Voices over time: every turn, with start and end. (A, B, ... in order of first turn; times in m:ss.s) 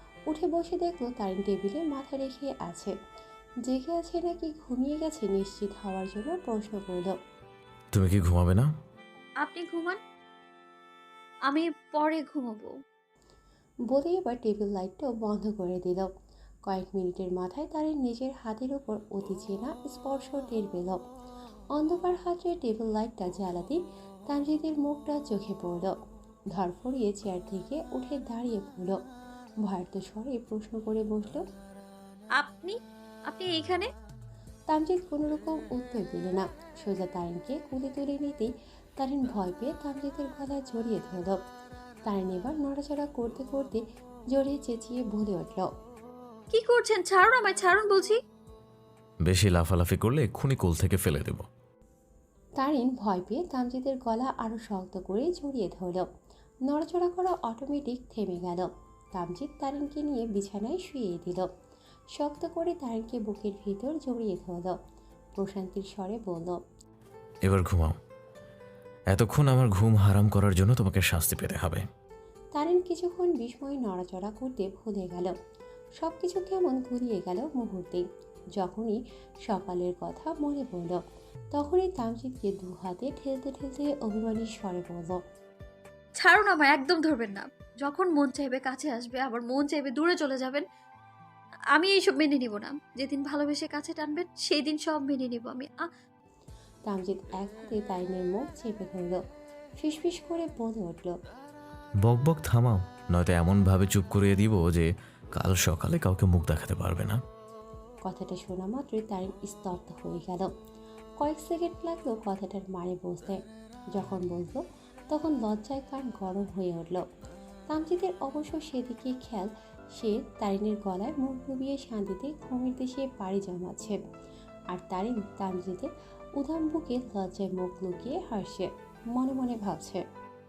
0:00.3-0:02.9 A
0:03.7-0:07.1 A
0:07.9-0:08.7 B
0:09.4-0:10.0 C
0:11.5-0:12.7 C
0:13.9-0:16.1 A
0:16.7-0:21.0 A
0:21.8-0:25.9 A
0:26.6-0:29.0 A
0:29.7-0:31.4 A
0:32.4-0:32.8 C
0:33.3-0:33.9 C
0:34.7-0:41.4 A
0:42.1-0:45.7 A
0:46.5-0:48.2 C
0:49.2-0:51.5 B
0:52.6-0:56.0 A
0:56.7-1:01.5 A
1:02.2-1:04.8 A
1:05.4-1:06.6 A
1:07.5-1:08.0 B
1:09.1-1:11.9 B
1:12.6-1:15.3 A
1:16.0-1:18.0 A
1:18.6-1:21.0 A
1:21.5-1:25.2 A
1:26.2-1:30.6 C
1:31.8-1:35.8 C
1:36.9-1:39.2 A
1:39.8-1:41.1 A
1:42.0-1:47.2 B
1:48.0-1:50.5 A
1:51.2-1:53.4 A
1:54.0-1:57.0 A
1:57.7-2:04.0 A
2:04.7-2:05.9 A
2:06.4-2:10.0 A